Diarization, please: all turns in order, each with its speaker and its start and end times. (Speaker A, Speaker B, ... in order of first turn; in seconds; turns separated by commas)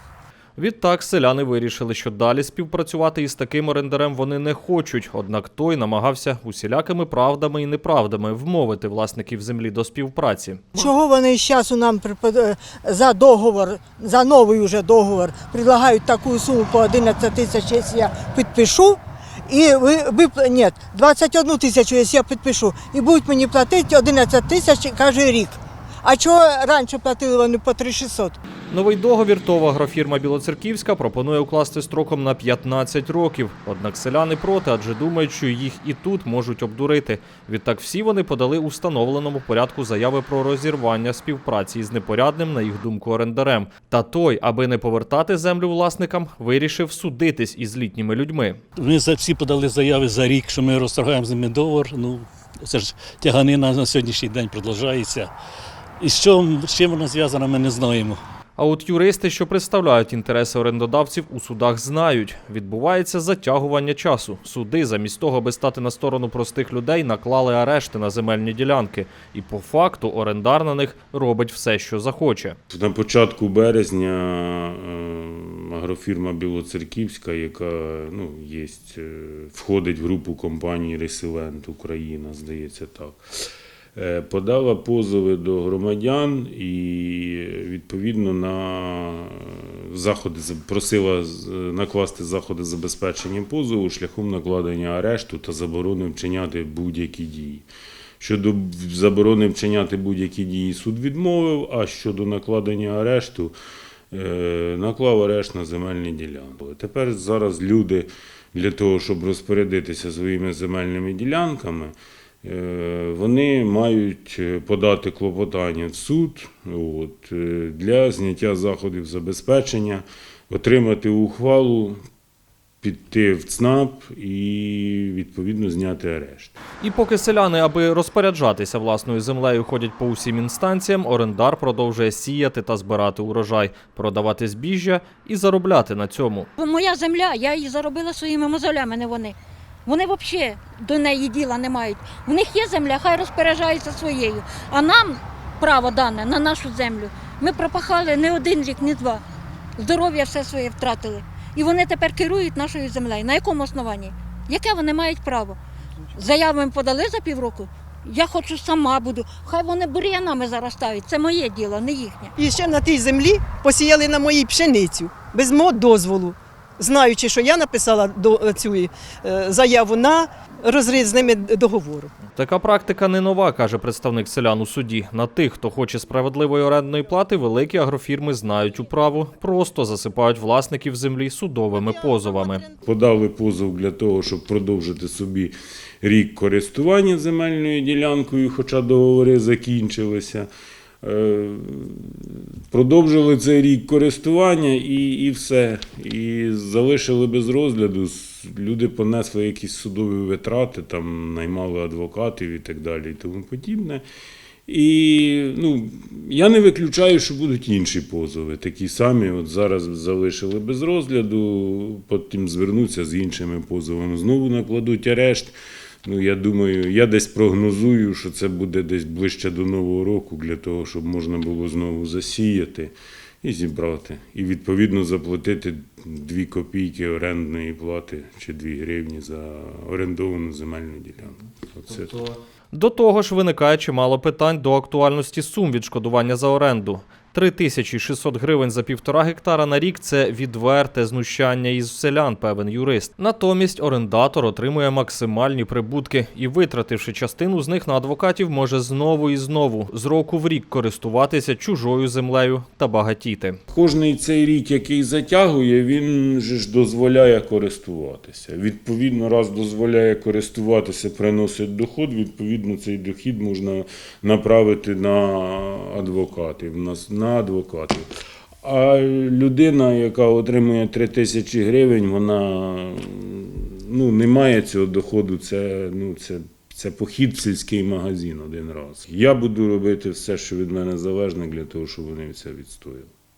Speaker A: 0.6-10.7, Speaker B: 10.7-28.4, Speaker A: 28.7-48.6, Speaker C: 48.8-55.3, Speaker C: 56.0-58.2, Speaker A: 58.6-72.6, Speaker D: 72.7-83.2, Speaker D: 83.9-97.7, Speaker D: 98.2-103.5, Speaker D: 104.1-122.0, Speaker D: 122.8-126.5, Speaker A: 126.8-136.5, Speaker E: 136.6-149.2, Speaker E: 149.8-155.6, Speaker E: 156.1-162.3, Speaker F: 162.4-172.1, Speaker A: 172.3-182.7, Speaker F: 181.8-182.6, Speaker D: 182.8-190.5, Speaker D: 191.0-204.0, Speaker D: 204.7-232.3, Speaker A: 232.7-253.6, Speaker D: 253.7-268.1, Speaker D: 268.6-283.1